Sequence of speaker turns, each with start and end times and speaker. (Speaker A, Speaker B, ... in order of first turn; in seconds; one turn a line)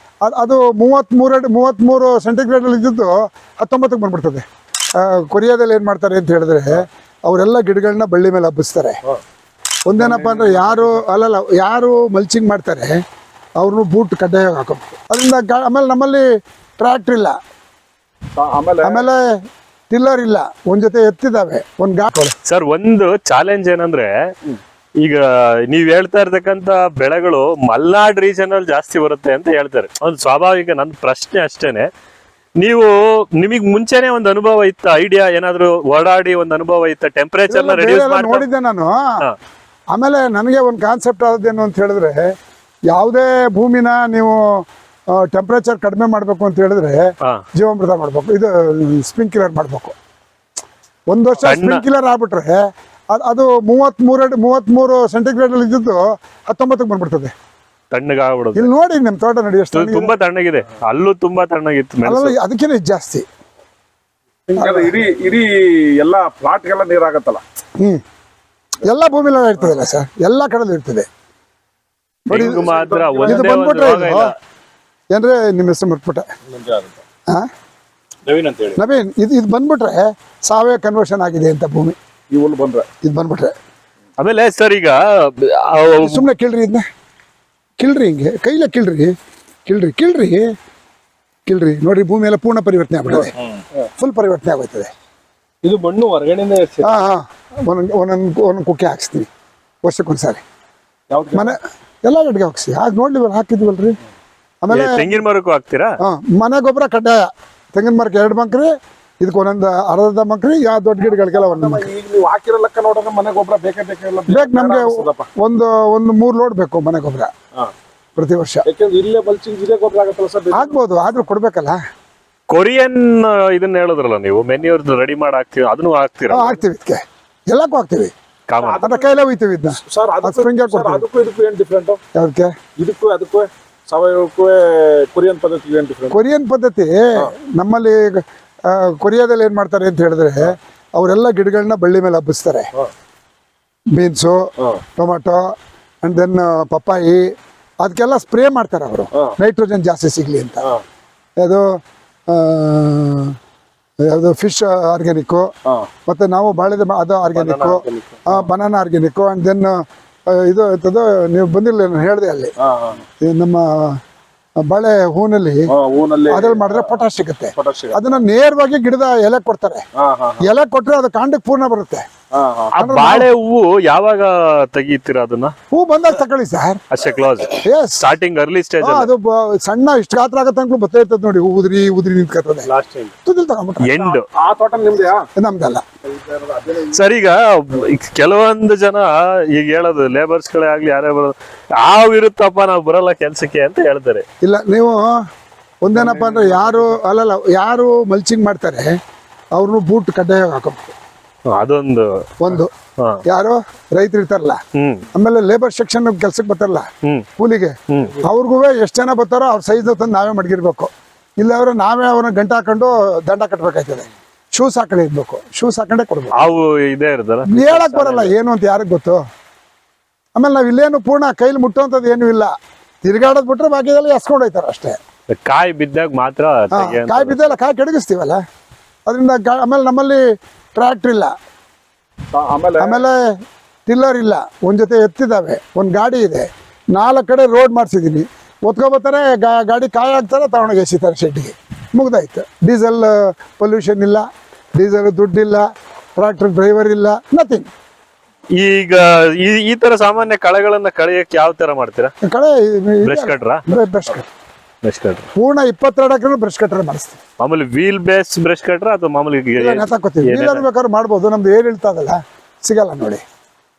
Speaker A: 0.2-4.5
Speaker A: 5.0-9.0
Speaker A: 9.9-13.0
Speaker B: 10.0-11.0
Speaker A: 13.6-16.3
Speaker A: 16.8-17.4
Speaker B: 18.3-19.1
Speaker A: 18.8-19.4
Speaker A: 19.9-22.4
Speaker C: 22.4-24.3
Speaker C: 25.0-31.9
Speaker C: 32.6-38.5
Speaker A: 37.5-39.2
Speaker A: 39.9-42.3
Speaker A: 42.9-50.0
Speaker A: 51.1-52.6
Speaker C: 51.4-51.8
Speaker A: 53.1-57.3
Speaker C: 57.9-58.7
Speaker A: 58.5-60.1
Speaker C: 59.7-62.4
Speaker A: 62.0-63.2
Speaker B: 64.5-67.4
Speaker A: 64.6-64.9
Speaker A: 68.8-71.1
Speaker C: 72.3-74.3
Speaker A: 72.3-72.7
Speaker B: 72.6-73.5
Speaker A: 73.2-74.3
Speaker A: 75.1-76.3
Speaker B: 76.5-77.0
Speaker B: 78.3-78.8
Speaker A: 78.8-82.0
Speaker B: 82.3-82.9
Speaker A: 83.0-83.5
Speaker C: 84.2-86.3
Speaker A: 86.0-86.8
Speaker A: 87.8-89.2
Speaker A: 89.7-90.5
Speaker A: 91.5-93.4
Speaker A: 94.0-94.9
Speaker B: 95.6-97.0
Speaker A: 96.8-99.3
Speaker A: 99.8-100.4
Speaker B: 101.1-101.6
Speaker A: 101.3-104.0
Speaker A: 104.6-105.1
Speaker C: 104.7-106.0
Speaker A: 106.0-111.9
Speaker B: 111.1-115.3
Speaker A: 114.3-117.3
Speaker A: 118.2-118.7
Speaker B: 118.7-120.8
Speaker A: 120.5-121.8
Speaker C: 122.5-126.6
Speaker A: 126.3-128.1
Speaker C: 128.5-128.9
Speaker B: 128.6-129.1
Speaker A: 128.8-131.0
Speaker B: 129.8-132.0
Speaker A: 132.2-132.6
Speaker B: 132.8-136.2
Speaker A: 136.1-142.7
Speaker A: 143.9-150.7
Speaker A: 151.4-151.8
Speaker A: 152.3-153.4
Speaker A: 154.1-155.5
Speaker A: 156.1-162.5
Speaker C: 157.3-158.2
Speaker B: 162.6-163.0
Speaker A: 163.2-164.0
Speaker A: 164.6-165.7
Speaker B: 165.7-168.2
Speaker A: 166.3-169.8
Speaker B: 169.9-170.5
Speaker A: 170.4-172.1
Speaker B: 172.3-172.8
Speaker C: 172.7-175.6
Speaker A: 172.8-173.3
Speaker A: 175.7-176.8
Speaker C: 176.9-179.1
Speaker A: 177.6-178.0
Speaker A: 178.8-182.7
Speaker A: 183.2-183.9
Speaker C: 183.8-184.3
Speaker B: 184.0-185.3
Speaker A: 185.3-185.8
Speaker B: 186.1-186.8
Speaker C: 186.8-194.2
Speaker A: 194.4-195.3
Speaker A: 195.8-199.0
Speaker B: 196.0-197.0
Speaker A: 199.6-200.9
Speaker C: 201.5-203.2
Speaker A: 202.4-202.7
Speaker A: 203.3-204.6
Speaker C: 204.8-205.1
Speaker A: 205.1-216.4
Speaker C: 207.9-208.2
Speaker C: 216.3-218.4
Speaker A: 217.5-219.2
Speaker A: 220.4-222.5
Speaker A: 223.0-225.0
Speaker C: 225.3-227.6
Speaker A: 226.7-228.4
Speaker A: 229.1-230.2
Speaker A: 230.8-231.3
Speaker B: 232.3-233.1
Speaker A: 232.8-233.3
Speaker A: 233.9-245.7
Speaker A: 246.2-247.7
Speaker C: 248.5-252.1
Speaker A: 252.2-254.3
Speaker C: 253.0-253.7
Speaker C: 254.8-255.3
Speaker A: 255.4-257.2
Speaker C: 257.4-260.6
Speaker A: 259.6-263.2